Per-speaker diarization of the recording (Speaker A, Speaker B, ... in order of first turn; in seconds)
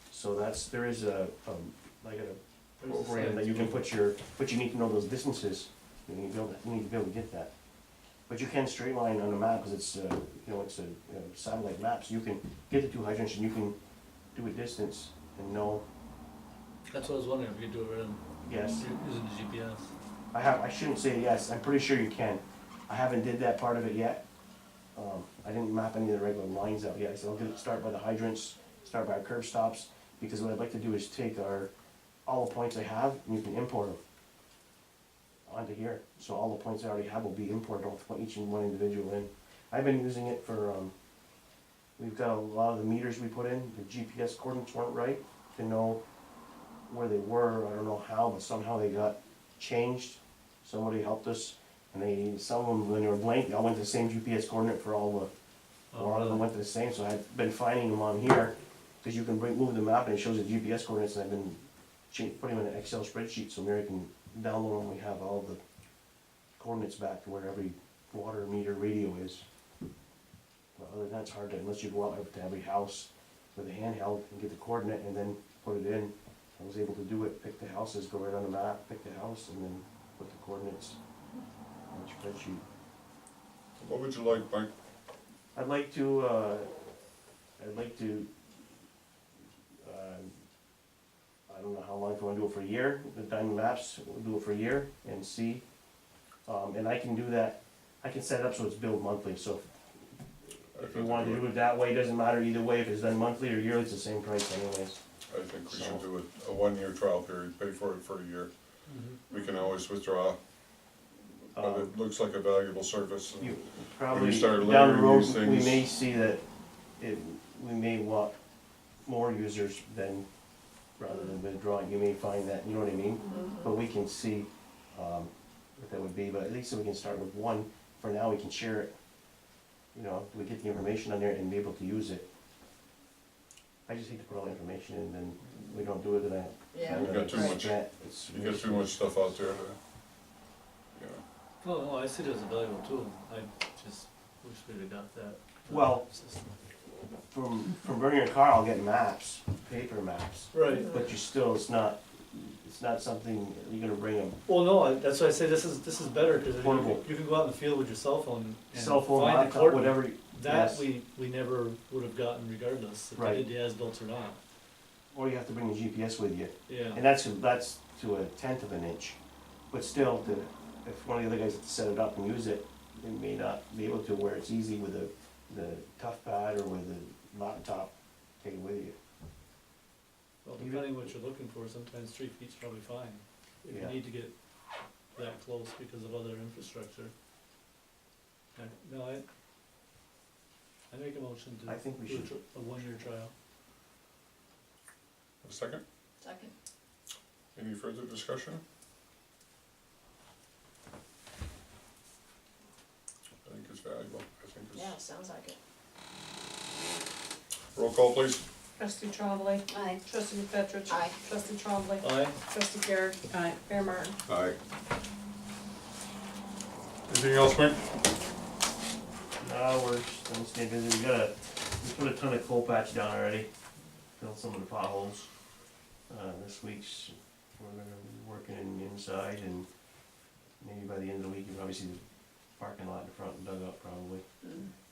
Speaker A: 0.1-7.5, 8.3-13.8, 14.3-15.8, 18.4-18.9, 20.3-24.2, 24.9-31.7, 32.3-34.0, 35.5-40.9, 42.0-46.0, 46.9-55.3, 56.0-65.6, 66.6-69.5, 70.8-81.0, 81.9-82.6, 85.5-87.0, 87.6-88.3, 89.8-90.4, 91.5-95.6, 96.5-99.7, 100.4-105.0, 105.7-106.0, 111.6-111.9, 113.4-116.4, 117.0-118.3, 119.0-120.3, 121.0-128.9, 129.9-132.3, 133.9-139.0, 145.7-146.1, 147.3-154.4, 156.5-157.0, 158.7-160.9, 163.2-163.4, 165.1-169.2, 169.7-179.0, 180.6-181.1, 183.7-184.0, 191.7-192.3, 219.4-223.5, 224.2-225.3, 226.1-229.7, 230.6-232.0, 232.6-234.2
Speaker B: 2.8-3.8, 16.9-18.2, 18.8-19.9, 55.9-56.5, 108.9-109.2, 141.6-146.5, 150.5-151.1, 154.5-164.4, 166.7-167.0, 180.4-184.3, 185.2-187.1, 188.6-189.2, 190.9-193.3, 212.0-212.4
Speaker C: 83.8-84.7, 100.7-101.6, 105.3-108.5, 109.3-110.4, 111.6-115.9, 136.9-139.8, 140.9-141.2, 195.4-195.8, 197.6-198.6, 203.4-205.0, 207.7-208.5, 214.3-214.6, 217.1-217.8
Speaker D: 123.3-123.7, 136.7-137.6, 150.6-150.9, 196.2-196.5, 204.8-205.6, 210.9-211.2
Speaker E: 208.8-214.2